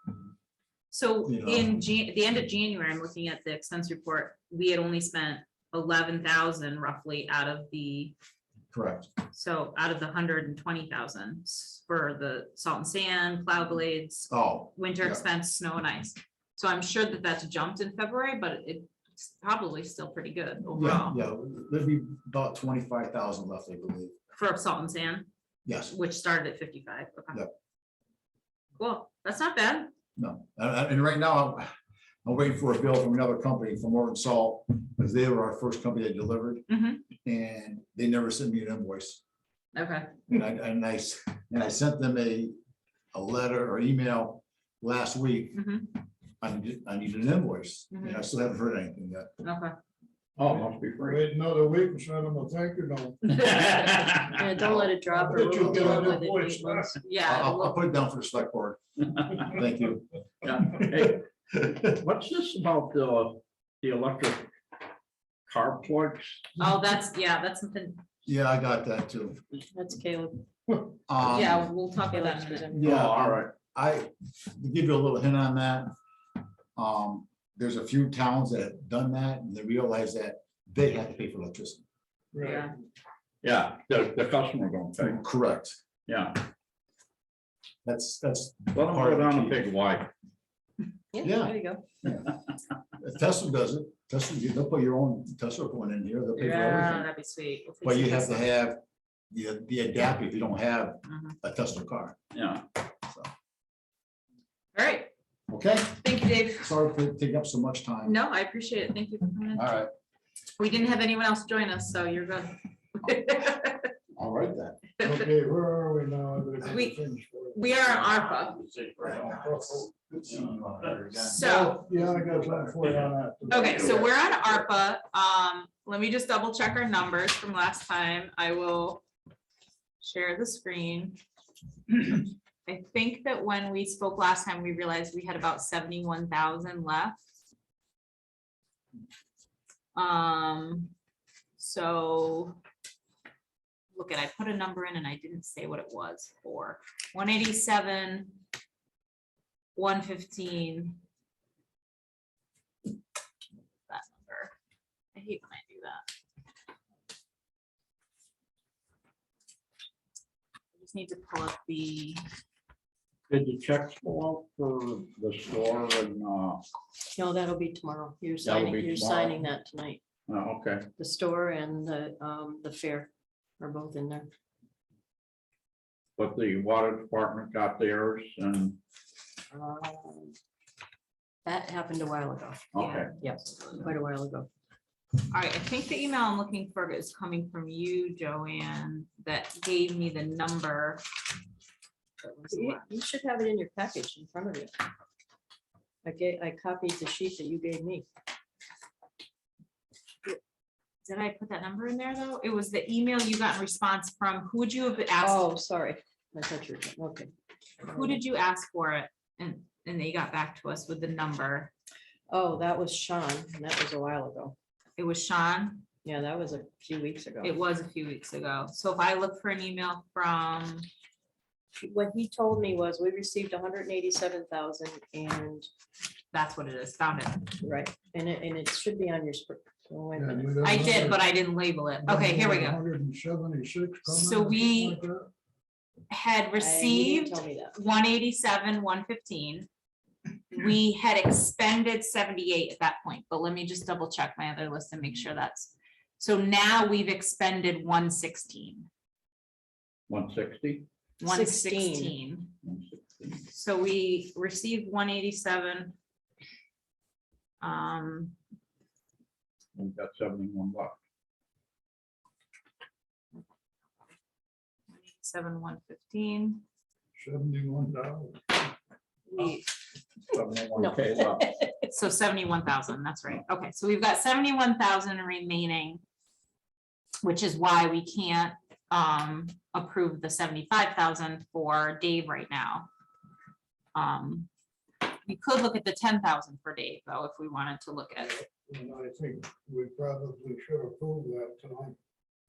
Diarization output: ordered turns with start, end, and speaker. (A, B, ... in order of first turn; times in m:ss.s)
0:00.9-0:08.1 A
0:01.3-0:01.8 B
0:08.7-0:09.1 B
0:09.3-0:21.2 A
0:14.3-0:15.2 B
0:20.7-0:24.1 B
0:24.3-0:25.3 A
0:25.7-0:25.9 B
0:25.8-0:27.4 A
0:28.8-0:29.9 A
0:30.2-0:31.7 B
0:32.2-0:36.6 B
0:36.7-0:37.0 A
0:37.2-0:39.2 B
0:39.7-0:40.1 A
0:40.3-0:42.6 B
0:43.1-0:45.6 B
0:45.5-0:45.9 A
0:46.4-0:49.4 B
0:47.9-0:48.2 A
0:49.4-0:49.7 A
0:50.4-0:51.3 C
0:51.0-0:53.8 D
0:53.4-0:54.5 C
0:54.3-0:57.0 E
0:55.1-0:57.0 D
0:55.6-0:56.2 B
0:57.0-0:57.8 A
0:57.2-1:00.0 B
1:00.4-1:01.2 C
1:00.6-1:01.0 B
1:01.6-1:01.9 B
1:01.9-1:04.5 C
1:05.5-1:06.5 C
1:06.6-1:08.0 A
1:08.2-1:09.4 B
1:09.7-1:10.5 E
1:11.1-1:11.7 B
1:11.2-1:13.0 A
1:12.1-1:12.7 E
1:12.7-1:15.9 B
1:12.8-1:13.5 C
1:16.8-1:21.8 B
1:22.3-1:22.7 D
1:22.4-1:22.8 A
1:23.4-1:25.2 C
1:25.0-1:25.8 B
1:26.1-1:26.4 C
1:27.8-1:29.7 B
1:28.7-1:30.1 C
1:31.1-1:31.8 E
1:31.2-1:32.4 B
1:33.0-1:37.1 B
1:36.4-1:38.5 A
1:37.8-1:38.8 B
1:39.3-1:42.2 B
1:41.0-1:41.4 A
1:42.3-1:42.6 C
1:44.8-1:45.1 A
1:45.5-1:48.2 B
1:46.0-1:46.7 A
1:48.0-1:49.7 A
1:49.5-1:49.9 B
1:50.6-1:53.9 A
1:54.1-1:54.8 B
1:55.0-1:55.3 A
1:55.0-1:57.7 D
1:56.6-1:57.0 A
1:57.5-1:58.6 A
1:58.6-1:59.5 C
1:59.3-1:59.9 D
2:00.1-2:01.4 B
2:01.2-2:01.9 A
2:01.4-2:04.2 D
2:03.5-2:09.0 A
2:10.0-2:11.2 A
2:11.9-2:17.2 A
2:19.9-2:20.9 A
2:21.6-2:22.6 A
2:23.9-2:28.4 A
2:29.8-2:31.0 A
2:33.9-2:34.5 A
2:35.2-2:36.0 A
2:40.8-2:42.2 A
2:43.3-2:46.6 C
2:47.1-2:50.0 E
2:48.4-2:49.4 C
2:50.3-2:50.9 C
2:51.0-2:54.3 E
2:56.2-2:58.8 C
2:59.5-3:00.3 E
3:01.4-3:02.7 E
3:02.7-3:03.1 C
3:02.8-3:03.8 A
3:03.2-3:04.5 E
3:05.3-3:11.0 A
3:12.2-3:12.9 A
3:12.5-3:14.7 E
3:16.0-3:18.1 E
3:21.0-3:25.5 A
3:25.2-3:28.2 E
3:27.9-3:31.7 A
3:32.3-3:34.6 E
3:35.0-3:35.8 A
3:36.0-3:37.5 E
3:37.4-3:40.9 A
3:41.7-3:45.7 E
3:46.3-3:47.5 A
3:47.6-3:51.2 E
3:50.2-3:51.2 D
3:50.6-3:52.8 A
3:52.0-3:55.3 D
3:54.1-3:55.0 A
3:56.1-3:59.7 A
3:56.6-3:57.8 E
4:00.5-4:08.9 A
4:10.1-4:10.9 C
4:11.2-4:12.5 A
4:11.2-4:12.1 E
4:12.6-4:13.4 C
4:13.5-4:16.0 A
4:17.6-4:18.4 A
4:19.8-4:21.0 C
4:24.9-4:26.6 A
4:27.2-4:28.4 D
4:29.3-4:29.6 A
4:30.3-4:31.5 C
4:30.8-4:31.7 E
4:31.9-4:36.0 A
4:37.2-4:42.9 A
4:43.9-4:44.5 A
4:45.2-4:48.4 A
4:48.6-4:52.0 D